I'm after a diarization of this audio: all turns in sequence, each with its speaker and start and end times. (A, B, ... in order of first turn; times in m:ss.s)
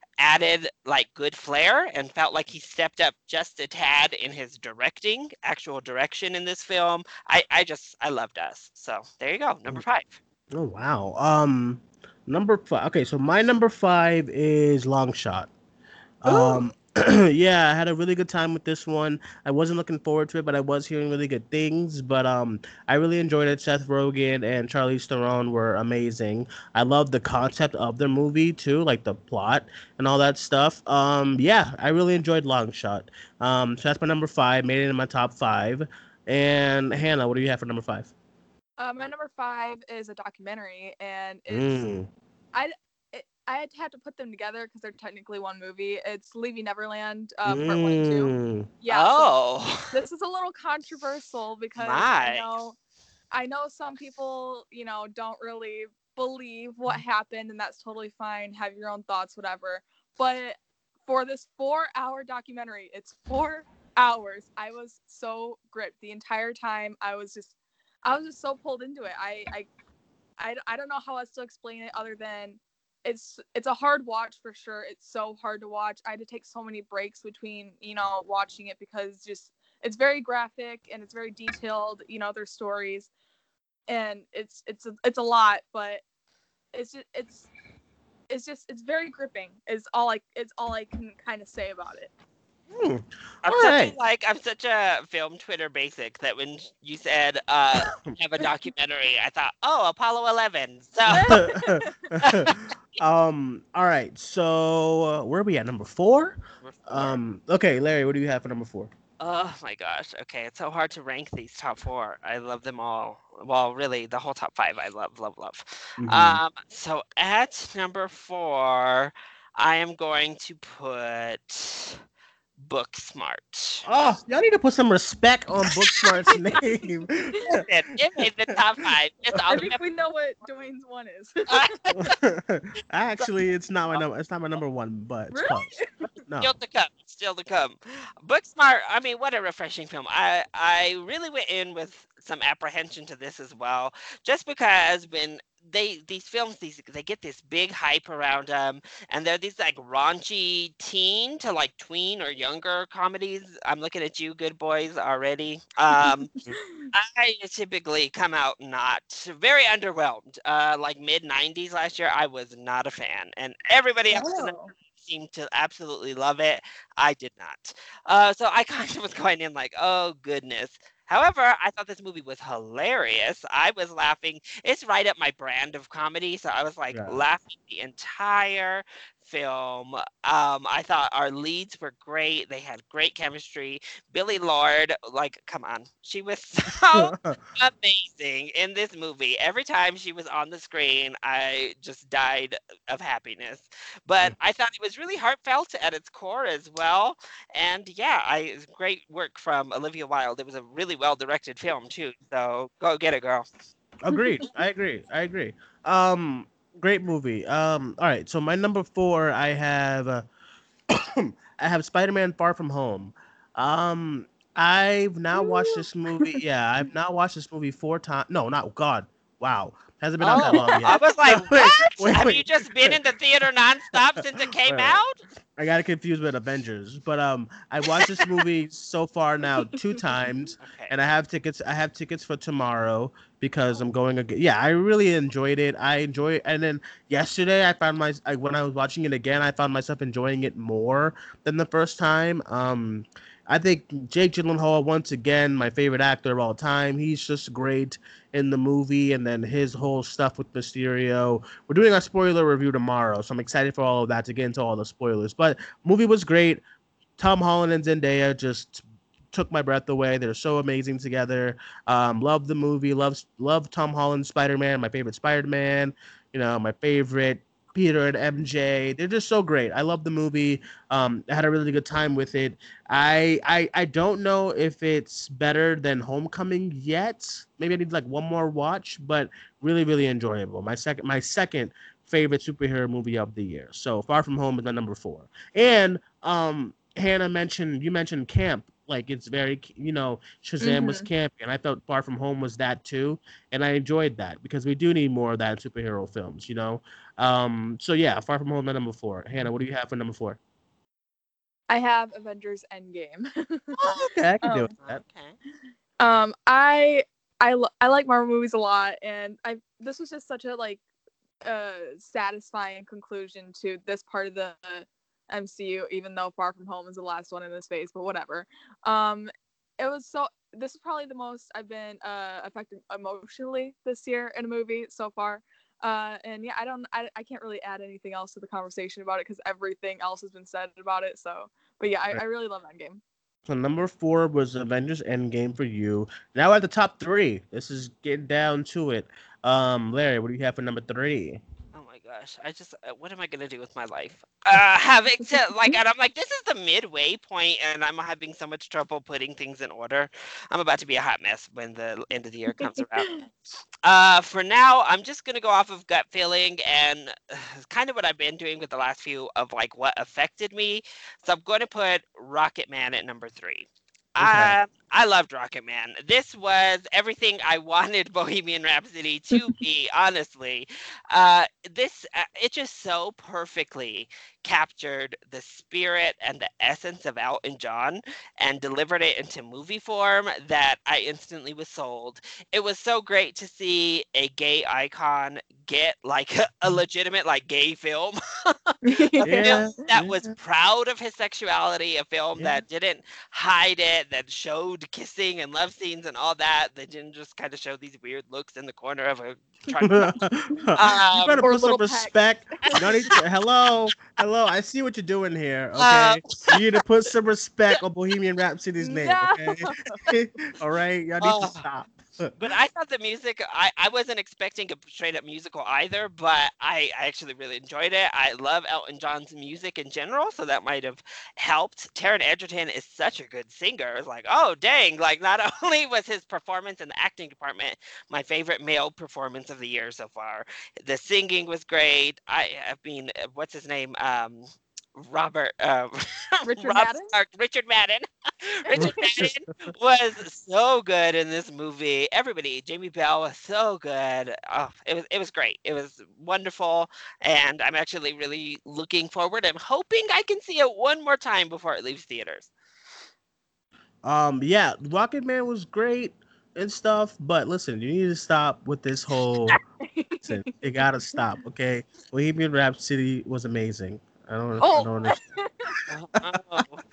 0:00.2-0:10.2 A
0:10.5-0:15.5 B
0:16.2-0:38.1 B
0:16.3-0:16.6 A
0:38.8-0:41.8 C
0:41.5-0:42.1 B
0:42.5-0:49.3 C
0:47.4-0:48.7 B
0:48.9-0:49.9 A
0:49.9-0:52.8 C
0:51.8-0:52.5 A
0:53.3-1:07.5 C
1:08.0-1:09.7 C
1:10.4-1:23.1 C
1:23.9-1:26.0 C
1:26.7-1:27.5 C
1:28.3-1:32.1 C
1:32.7-1:33.9 B
1:33.4-1:41.4 A
1:41.1-1:42.1 C
1:41.2-1:48.9 B
1:42.2-1:42.7 A
1:46.6-1:47.2 A
1:49.2-2:02.0 A
1:56.0-1:56.4 B
2:02.6-2:03.8 A
2:03.8-2:07.6 B
2:06.0-2:06.6 C
2:07.7-2:09.8 A
2:09.5-2:11.7 C
2:11.5-2:12.1 A
2:12.0-2:16.5 B
2:15.3-2:16.0 C
2:16.4-2:36.3 A
2:35.9-2:36.9 C
2:36.9-3:23.4 A
2:44.1-2:44.7 C
2:56.9-2:57.2 B
3:06.9-3:07.4 B
3:24.0-3:30.3 B
3:30.9-3:43.0 B
3:35.4-3:36.4 C
3:40.2-3:45.2 A
3:40.3-3:41.0 C
3:43.9-3:45.0 B
3:45.6-4:16.6 B
3:50.6-3:50.9 A
4:17.2-5:00.4 B
4:50.6-4:51.1 C
5:01.7-5:03.8 C
5:03.8-5:05.0 B
5:04.4-5:04.7 C
5:04.8-5:05.4 A
5:06.0-5:10.8 C
5:11.4-5:33.0 C
5:33.5-5:41.4 B
5:41.7-5:53.2 A
5:52.5-5:53.2 C
5:53.8-6:40.2 A
6:04.2-6:04.5 B
6:28.8-6:29.8 C
6:29.2-6:30.3 B
6:32.4-6:32.6 B
6:39.8-6:52.3 B
6:40.8-6:41.4 A
6:41.4-6:43.1 C
6:45.8-6:46.5 A
6:48.8-6:50.1 C
6:51.2-6:51.6 A
6:52.4-7:18.0 A
7:16.4-7:17.1 C
7:18.6-7:32.5 A
7:18.7-7:19.0 C
7:18.8-7:19.3 B
7:34.0-7:39.6 B
7:39.8-7:40.5 C
7:40.2-7:45.2 B
7:44.6-7:45.7 C
7:45.9-7:46.8 A